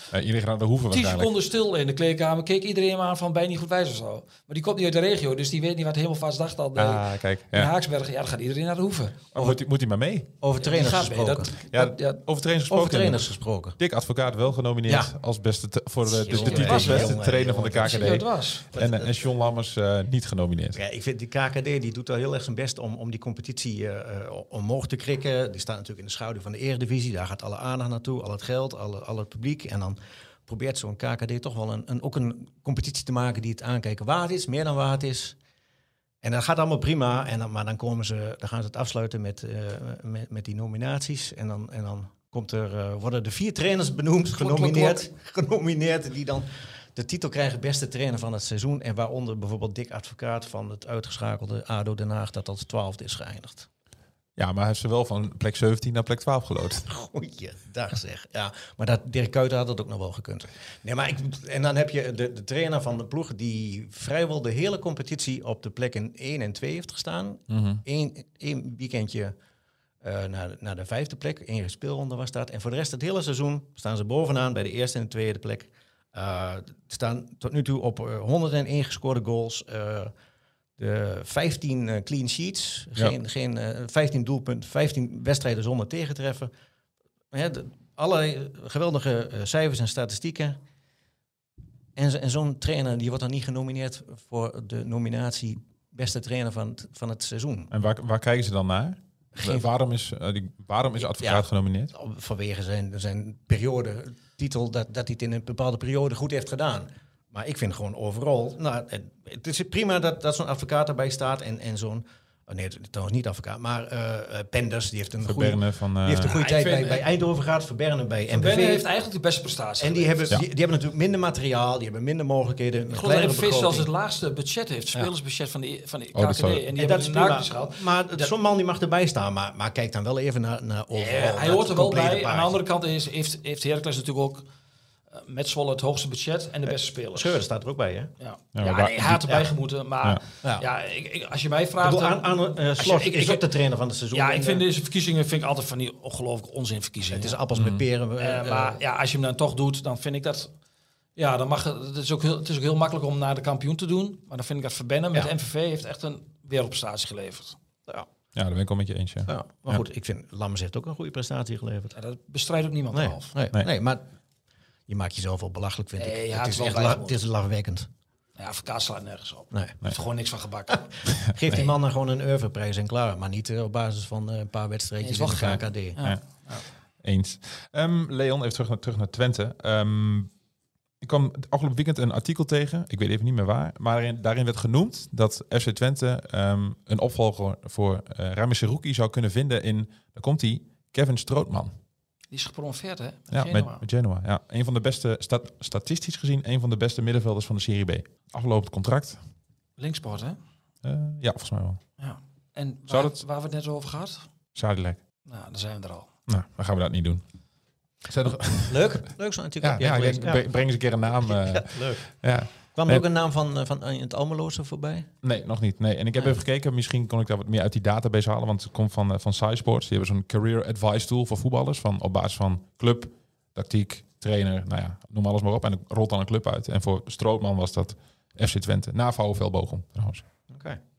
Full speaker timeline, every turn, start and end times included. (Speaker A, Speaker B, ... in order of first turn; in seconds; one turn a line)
Speaker A: 0.1-1.3
Speaker B: 0.9-9.2
Speaker A: 6.8-7.7
Speaker A: 9.3-10.3
Speaker C: 10.4-11.6
Speaker B: 10.6-12.2
Speaker A: 11.7-13.2
Speaker C: 12.7-13.8
Speaker A: 13.8-20.8
Speaker C: 14.9-15.1
Speaker C: 16.0-18.1
Speaker B: 16.3-17.2
Speaker B: 17.8-18.7
Speaker C: 18.7-19.3
Speaker C: 20.7-35.4
Speaker C: 36.2-53.7
Speaker B: 44.3-45.1
Speaker A: 54.4-56.9
Speaker C: 56.9-69.3
Speaker A: 67.5-67.8
Speaker C: 70.0-80.1
Speaker C: 80.8-86.5
Speaker C: 87.3-90.6
Speaker C: 92.0-97.7
Speaker A: 97.7-101.9
Speaker C: 99.3-99.7
Speaker C: 101.2-118.8
Speaker A: 115.2-116.3
Speaker B: 116.2-117.0
Speaker B: 118.3-120.3
Speaker C: 119.8-123.9
Speaker B: 122.9-128.3
Speaker A: 126.1-126.6
Speaker C: 126.7-132.6
Speaker B: 130.9-134.4
Speaker B: 135.1-137.3
Speaker C: 136.7-138.1
Speaker B: 138.2-143.5
Speaker A: 138.5-139.2
Speaker C: 141.8-144.6
Speaker B: 144.1-147.4
Speaker C: 147.1-148.8
Speaker A: 147.5-147.8
Speaker B: 148.2-150.5
Speaker B: 151.2-157.6
Speaker A: 158.3-159.8
Speaker C: 159.3-161.9
Speaker B: 161.9-163.3
Speaker C: 162.9-164.0
Speaker C: 164.9-167.9
Speaker B: 166.0-167.2
Speaker B: 168.4-170.8
Speaker C: 169.5-169.8
Speaker C: 170.7-176.0
Speaker B: 175.0-176.6
Speaker A: 175.4-176.2
Speaker A: 177.0-180.3
Speaker A: 181.0-191.7
Speaker B: 192.3-193.8
Speaker A: 193.3-199.2
Speaker B: 199.8-200.4
Speaker A: 200.8-201.8
Speaker B: 202.0-204.2
Speaker A: 202.9-203.2
Speaker A: 204.6-205.0
Speaker B: 205.2-206.1
Speaker A: 206.3-207.2
Speaker A: 208.1-208.9
Speaker C: 208.6-210.5
Speaker A: 209.6-213.0
Speaker C: 211.1-212.1
Speaker C: 212.7-215.1
Speaker A: 215.2-230.2
Speaker C: 230.5-230.8